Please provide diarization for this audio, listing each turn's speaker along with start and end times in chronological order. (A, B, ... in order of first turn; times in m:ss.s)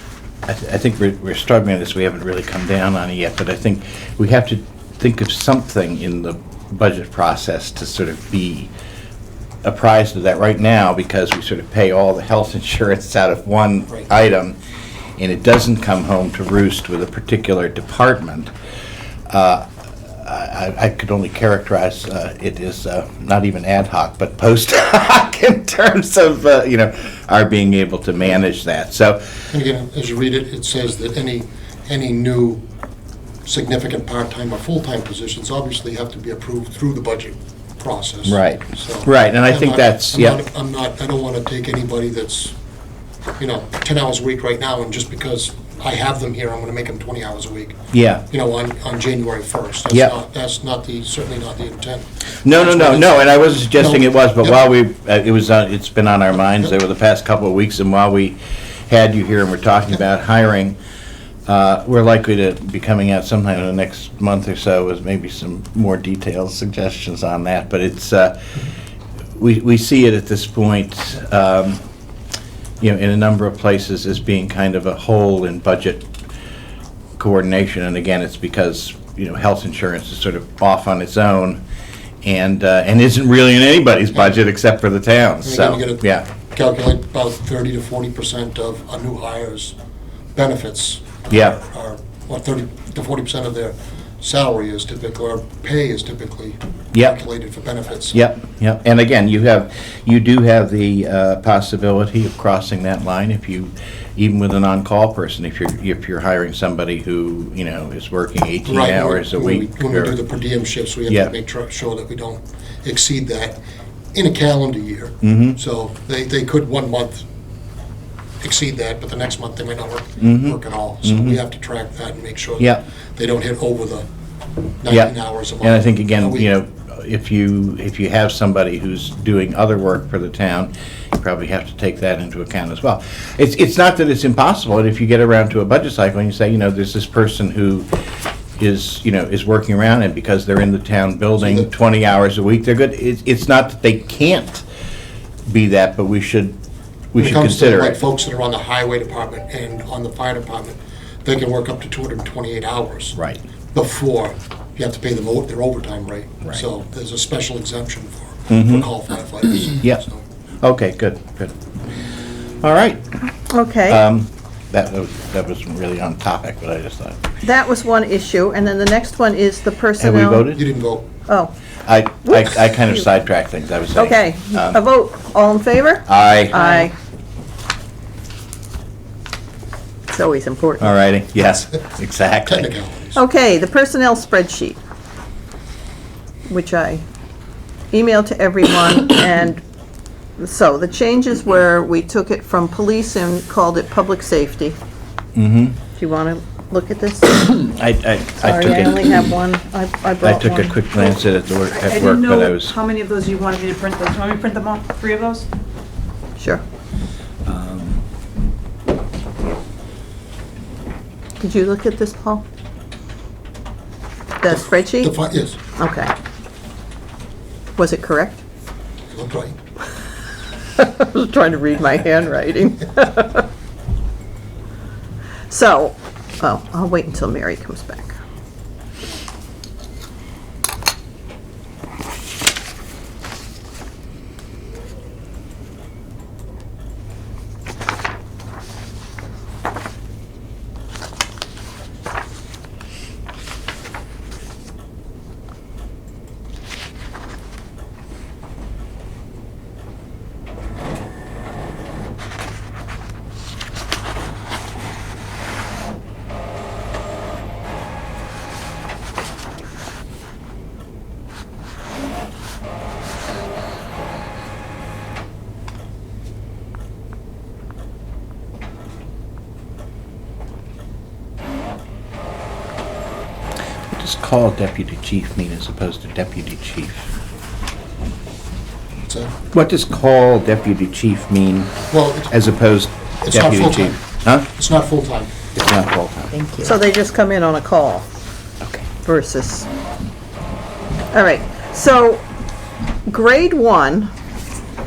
0:00.5-0:08.7 A
0:09.6-0:14.6 A
0:15.2-0:18.5 A
0:19.3-0:29.5 A
0:29.5-0:32.6 B
0:33.4-0:42.6 B
0:38.3-0:40.4 A
0:43.4-0:47.8 B
0:47.9-0:48.2 A
0:48.3-0:54.6 B
0:52.4-0:58.4 A
0:58.9-1:00.8 A
1:01.5-1:08.7 A
1:09.4-1:11.8 A
1:12.8-1:16.1 A
1:17.2-1:21.6 A
1:22.2-1:26.2 A
1:25.4-1:29.8 B
1:30.3-1:38.2 B
1:31.3-1:31.6 A
1:38.1-1:50.2 A
1:48.6-1:53.6 B
1:51.1-1:51.3 A
1:54.1-1:57.2 B
1:55.2-1:55.6 A
1:58.4-2:04.0 B
2:00.2-2:01.4 A
2:04.8-2:06.5 B
2:04.9-2:17.9 A
2:18.6-2:24.7 A
2:21.4-2:21.7 B
2:25.5-2:26.6 A
2:27.1-2:28.0 A
2:27.2-2:33.2 B
2:33.2-2:33.4 A
2:33.7-2:40.2 B
2:38.5-2:38.9 A
2:40.6-2:41.5 A
2:42.5-2:43.1 A
2:43.5-2:44.0 C
2:43.8-2:47.2 A
2:47.4-2:50.5 C
2:50.0-2:50.6 A
2:50.5-2:51.1 B
2:51.3-2:51.5 C
2:51.8-2:54.8 A
2:52.2-2:53.0 C
2:54.0-2:56.9 C
2:56.1-2:56.9 A
3:00.1-3:01.0 C
3:00.8-3:02.7 A
3:02.5-3:03.2 B
3:03.2-3:04.8 C
3:06.5-3:07.0 C
3:07.9-3:09.6 C
3:10.4-3:14.8 C
3:15.4-3:15.8 A
3:16.0-3:17.6 C
3:17.4-3:19.3 A
3:18.4-3:21.2 C
3:20.2-3:22.7 A
3:21.8-3:25.5 D
3:27.4-3:28.0 A
3:31.4-3:32.4 C
3:34.4-3:35.1 C
3:34.5-3:35.6 B
3:35.8-3:36.1 C
3:37.8-3:38.4 C
3:39.1-3:39.5 B
3:40.8-3:43.5 C
3:45.5-3:48.2 C
4:33.9-4:37.1 A
4:39.0-4:39.3 B
4:39.5-4:44.5 A
4:41.9-4:42.3 B
4:43.2-4:45.3 B
4:45.6-4:46.4 A
4:46.6-4:48.1 C
4:49.0-4:49.7 C
4:51.1-4:52.2 C
4:53.1-4:54.1 C